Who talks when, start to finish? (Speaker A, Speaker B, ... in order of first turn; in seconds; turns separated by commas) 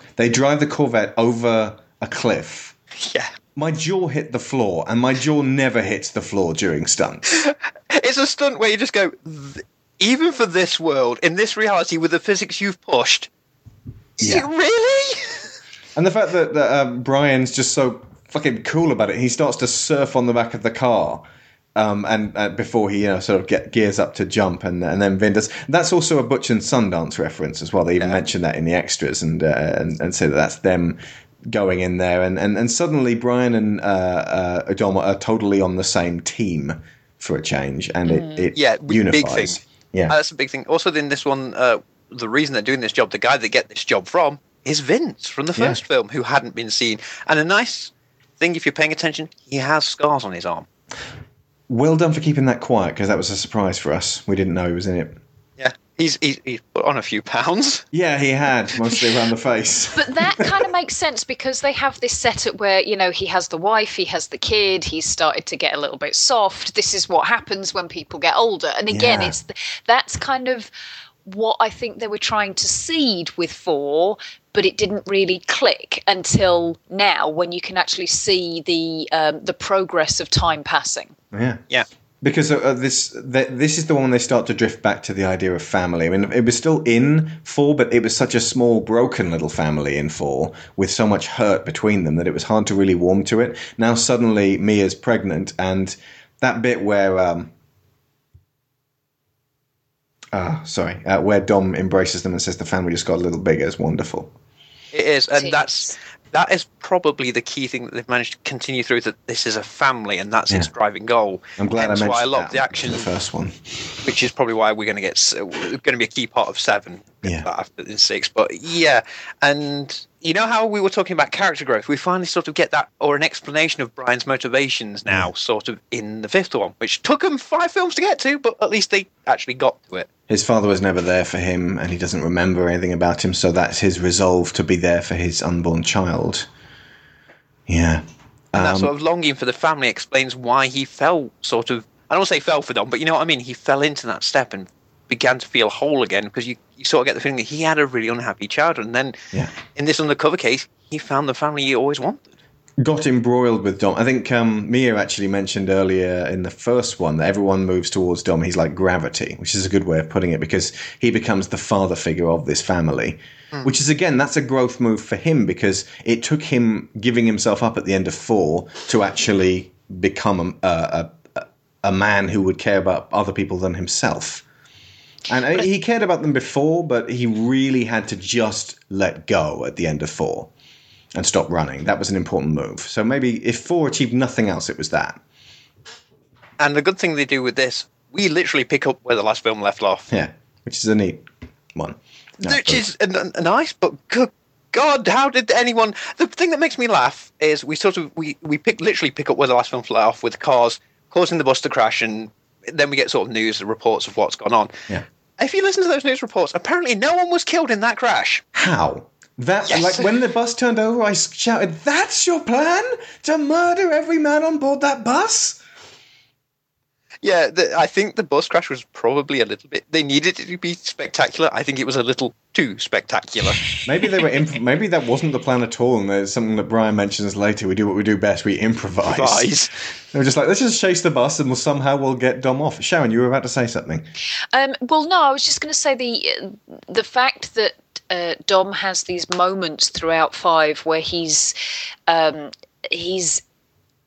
Speaker A: 0.2-2.7, Speaker B: 3.0-3.3, Speaker A: 3.5-7.4, Speaker B: 7.4-13.3, Speaker B: 14.2-15.5, Speaker A: 14.2-14.4, Speaker A: 15.9-40.1, Speaker C: 38.1-38.5, Speaker B: 38.5-50.6, Speaker A: 51.7-55.2, Speaker B: 55.6-57.8, Speaker A: 57.9-60.5, Speaker C: 60.0-70.7, Speaker A: 68.9-69.4, Speaker C: 71.2-81.1, Speaker A: 81.3-81.6, Speaker A: 82.2-97.5, Speaker A: 100.3-104.3, Speaker B: 104.9-113.1, Speaker C: 105.3-105.9, Speaker A: 111.6-113.6, Speaker B: 114.0-130.1, Speaker A: 130.3-136.5, Speaker A: 137.7-138.9, Speaker B: 138.6-149.2, Speaker B: 149.7-152.3, Speaker A: 152.8-174.4, Speaker A: 175.3-180.5, Speaker A: 181.1-185.2, Speaker B: 186.6-190.1, Speaker A: 190.1-192.8, Speaker B: 192.4-204.8, Speaker B: 205.4-208.4, Speaker A: 208.5-215.6, Speaker B: 209.7-210.1, Speaker B: 217.2-223.8, Speaker A: 223.8-229.5, Speaker B: 229.1-229.7, Speaker A: 230.1-234.1, Speaker C: 234.5-241.5, Speaker C: 242.1-243.4